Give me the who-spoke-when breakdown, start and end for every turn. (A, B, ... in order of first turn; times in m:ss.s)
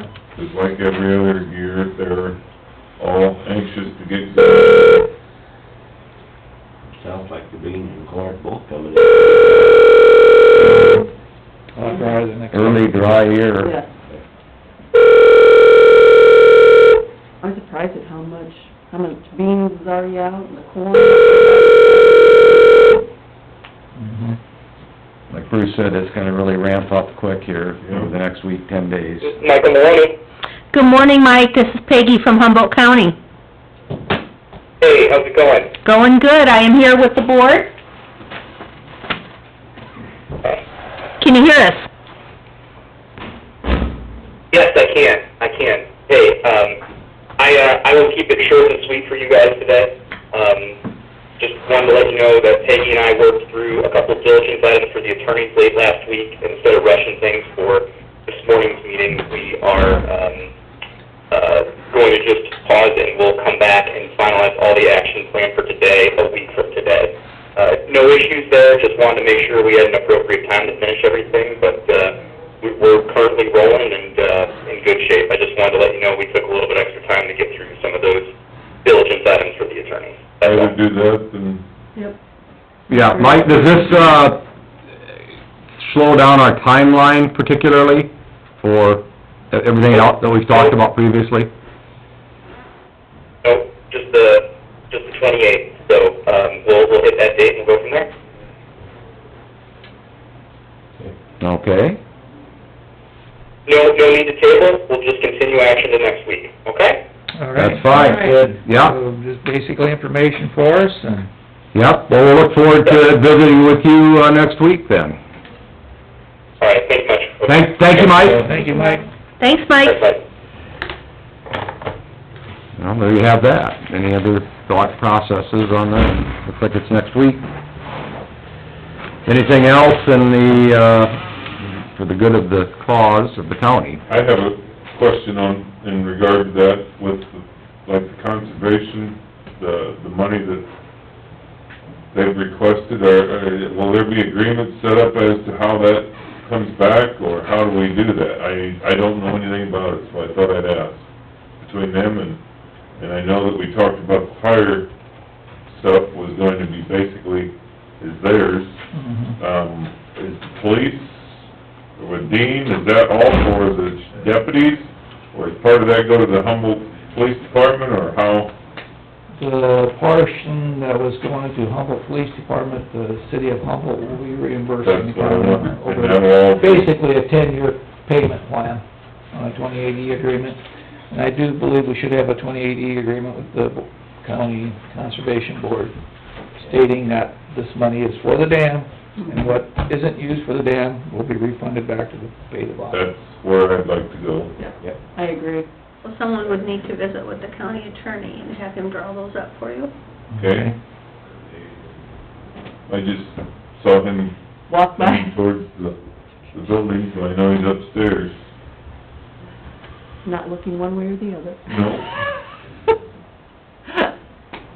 0:00.4-0:02.4 A
0:03.0-0:05.1 A
0:07.0-0:10.1 B
0:10.6-0:11.0 C
0:11.7-0:13.3 C
0:11.8-0:12.2 D
0:12.5-0:13.8 E
0:13.6-0:13.9 D
0:17.4-0:23.0 D
0:24.0-0:24.4 C
0:25.3-0:29.4 E
0:27.8-0:28.1 A
0:29.2-0:30.2 F
0:30.7-0:33.2 G
0:34.8-0:35.7 F
0:35.8-0:37.7 G
0:41.2-0:41.9 G
0:44.5-0:46.8 F
0:47.4-0:50.8 F
0:51.4-1:00.5 F
1:01.3-1:18.3 F
1:18.8-1:20.8 F
1:20.4-1:21.7 A
1:22.9-1:24.0 D
1:22.9-1:24.4 E
1:25.8-1:31.5 E
1:29.9-1:30.8 F
1:33.4-1:38.1 F
1:41.4-1:42.0 E
1:43.7-1:47.0 F
1:47.4-1:51.3 C
1:47.6-1:49.0 E
1:48.0-1:48.4 D
1:51.7-1:55.2 E
1:56.6-1:57.7 F
1:57.4-1:58.4 E
1:57.9-1:59.0 C
1:59.4-2:00.0 G
1:59.8-2:00.2 F
2:02.8-2:07.4 E
2:09.3-2:11.2 E
2:11.8-2:14.0 E
2:14.1-2:20.7 A
2:22.1-2:31.0 A
2:31.6-2:32.4 A
2:33.0-2:34.9 A
2:35.7-2:38.8 A
2:38.9-2:39.4 C
2:39.4-2:41.3 A
2:42.0-2:48.5 A
2:49.4-3:00.6 C
2:54.8-2:56.9 A
3:01.1-3:06.0 C
3:06.6-3:13.0 C
3:12.9-3:14.6 A
3:14.6-3:15.7 D
3:16.0-3:19.9 H
3:20.3-3:20.8 C
3:20.4-3:20.7 A
3:22.9-3:24.4 A
3:24.7-3:25.4 D
3:25.0-3:26.0 A
3:26.5-3:28.4 A
3:30.2-3:32.0 D
3:31.7-3:32.1 A